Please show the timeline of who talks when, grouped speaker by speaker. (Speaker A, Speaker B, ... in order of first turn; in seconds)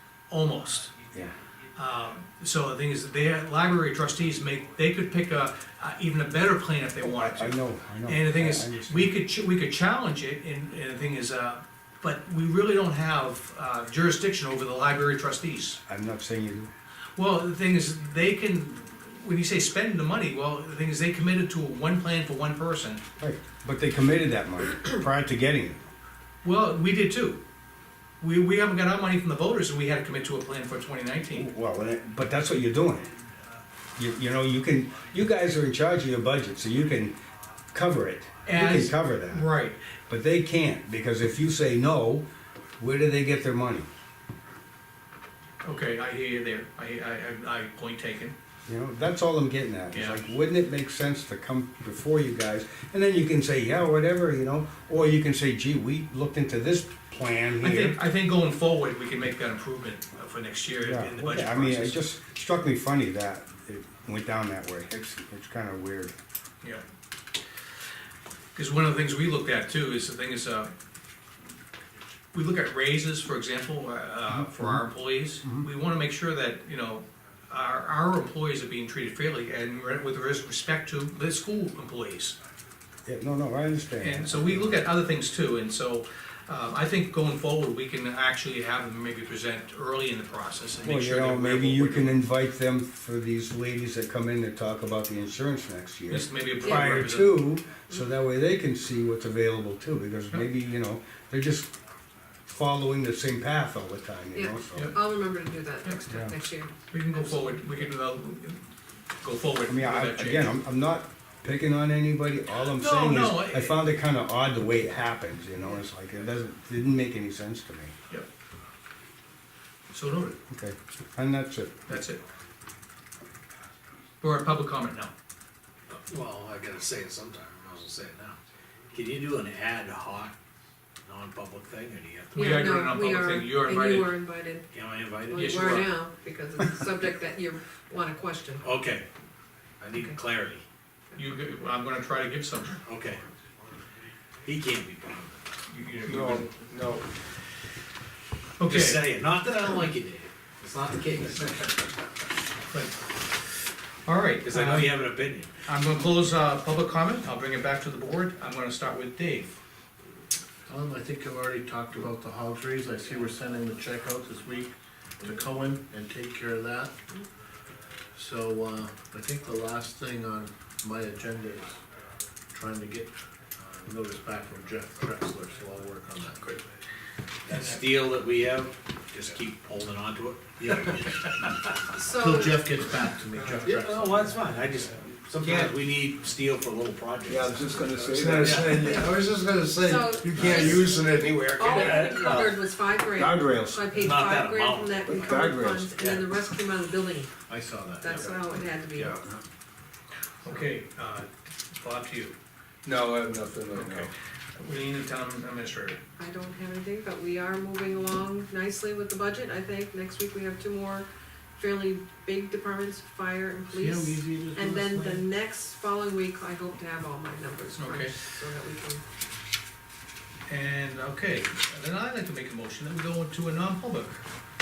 Speaker A: 0.3-0.9, 1.7-15.8, 17.1-23.0, 26.4-27.4, 28.2-31.5, 38.5-39.8, 45.6-48.3, 49.9-50.2, 57.6-62.0, 68.5-70.7, 72.3-82.3, 84.0-92.2, 96.1-97.4, 106.9-108.6, 109.2-110.5, 112.6-113.8, 119.9-120.4, 121.9-122.2, 124.2-125.1, 132.3-134.1, 135.3-136.0, 141.1-142.8, 145.7-146.5, 148.6-149.1, 152.7-152.9, 154.0-155.0, 155.6-159.5, 200.4-202.3, 203.7-206.0, 217.8-218.2, 220.5-224.2
Speaker B: 7.0-9.1, 15.8-16.7, 23.2-25.9, 31.3-33.1, 34.0-37.2, 37.7-39.5, 40.1-42.2, 42.8-43.9, 48.6-58.0, 60.8-66.1, 74.3-74.8, 83.0-84.8, 90.8-101.7, 102.5-105.0, 106.1-106.3, 109.7-117.9, 120.5-122.0, 187.3-192.5, 193.1-193.8, 195.2-195.7
Speaker C: 96.6-96.9, 104.3-107.6, 132.3-134.7, 135.3-138.7, 181.9-183.7, 188.7-191.0, 191.5-197.3, 198.0-199.2, 206.2-219.0
Speaker D: 125.9-128.4, 128.9-130.3, 131.0-132.7, 134.7-135.9, 138.6-139.1, 139.8-140.6, 142.8-143.2, 144.4-145.4, 148.6-151.8, 154.4-155.5, 177.4-181.7, 183.6-188.9, 190.4-190.8, 191.7-192.4, 193.9-196.3
Speaker E: 146.0-147.0, 187.3-192.3, 195.3-195.8, 202.8-204.1
Speaker F: 160.7-167.0, 168.1-171.8, 172.5-173.1, 173.8-176.5, 177.5-177.8, 180.6-180.9, 182.1-184.4, 197.5-198.4, 213.7-215.3